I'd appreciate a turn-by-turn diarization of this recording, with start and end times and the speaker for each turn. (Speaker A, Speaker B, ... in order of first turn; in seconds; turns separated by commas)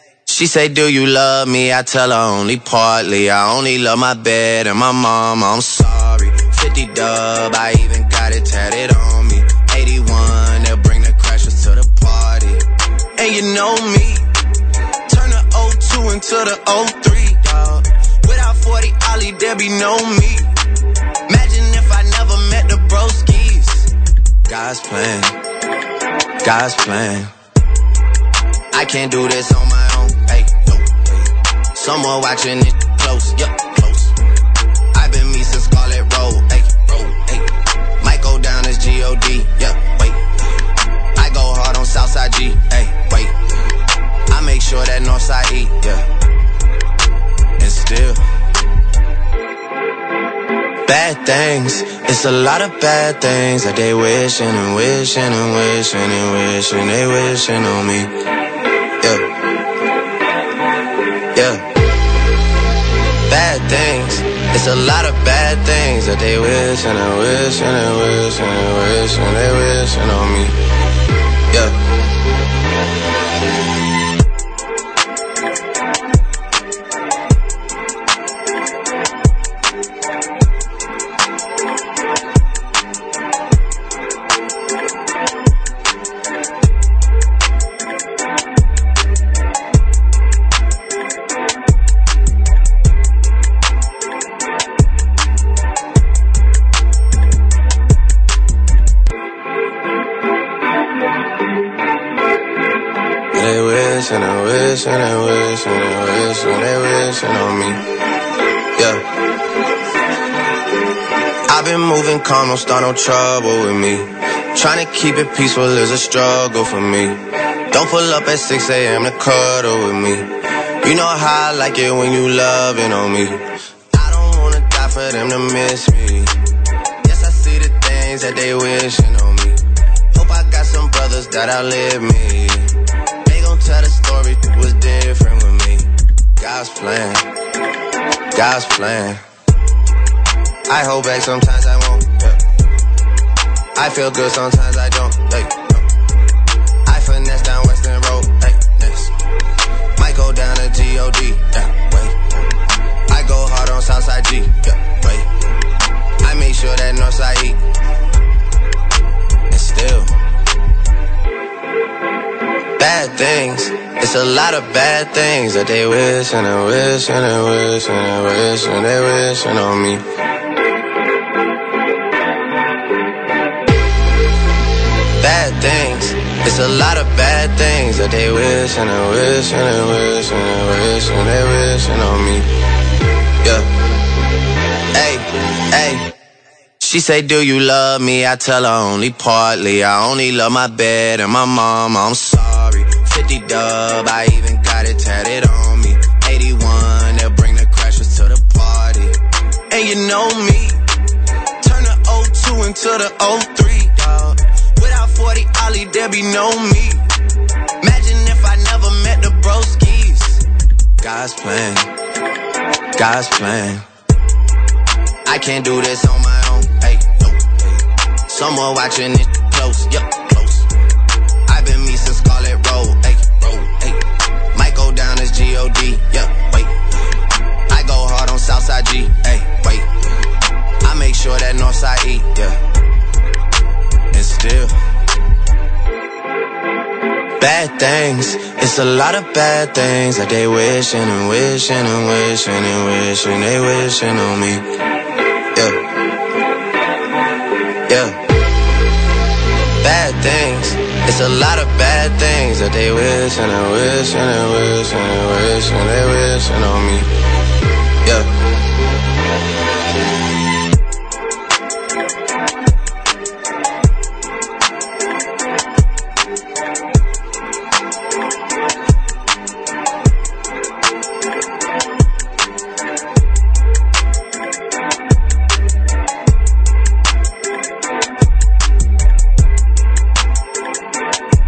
Speaker A: 0.3-12.6, Speaker A: 13.2-14.3, Speaker A: 15.1-20.5, Speaker A: 21.3-23.9, Speaker A: 24.5-25.4, Speaker A: 26.4-27.3, Speaker A: 28.7-34.1, Speaker A: 34.9-40.3, Speaker A: 41.2-43.4, Speaker A: 44.3-46.0, Speaker A: 47.6-48.2, Speaker A: 50.9-58.1, Speaker A: 59.0-59.3, Speaker A: 61.3-61.7, Speaker A: 63.3-70.5, Speaker A: 71.5-71.8, Speaker A: 103.3-107.9, Speaker A: 108.8-109.1, Speaker A: 111.5-126.3, Speaker A: 127.0-129.6, Speaker A: 130.1-132.7, Speaker A: 133.2-135.9, Speaker A: 136.4-137.3, Speaker A: 138.3-139.2, Speaker A: 140.7-142.4, Speaker A: 143.8-145.8, Speaker A: 146.9-149.1, Speaker A: 150.0-152.5, Speaker A: 153.1-155.3, Speaker A: 156.2-157.6, Speaker A: 159.5-160.1, Speaker A: 162.8-170.0, Speaker A: 175.2-182.5, Speaker A: 183.4-183.7, Speaker A: 184.9-186.1, Speaker A: 186.8-199.2, Speaker A: 199.7-200.8, Speaker A: 201.6-207.0, Speaker A: 207.8-210.4, Speaker A: 211.0-211.9, Speaker A: 213.0-213.8, Speaker A: 215.3-220.7, Speaker A: 221.5-226.8, Speaker A: 227.7-229.9, Speaker A: 230.8-232.6, Speaker A: 234.1-234.7, Speaker A: 237.4-244.7, Speaker A: 247.9-248.2, Speaker A: 249.8-257.1, Speaker A: 258.0-258.3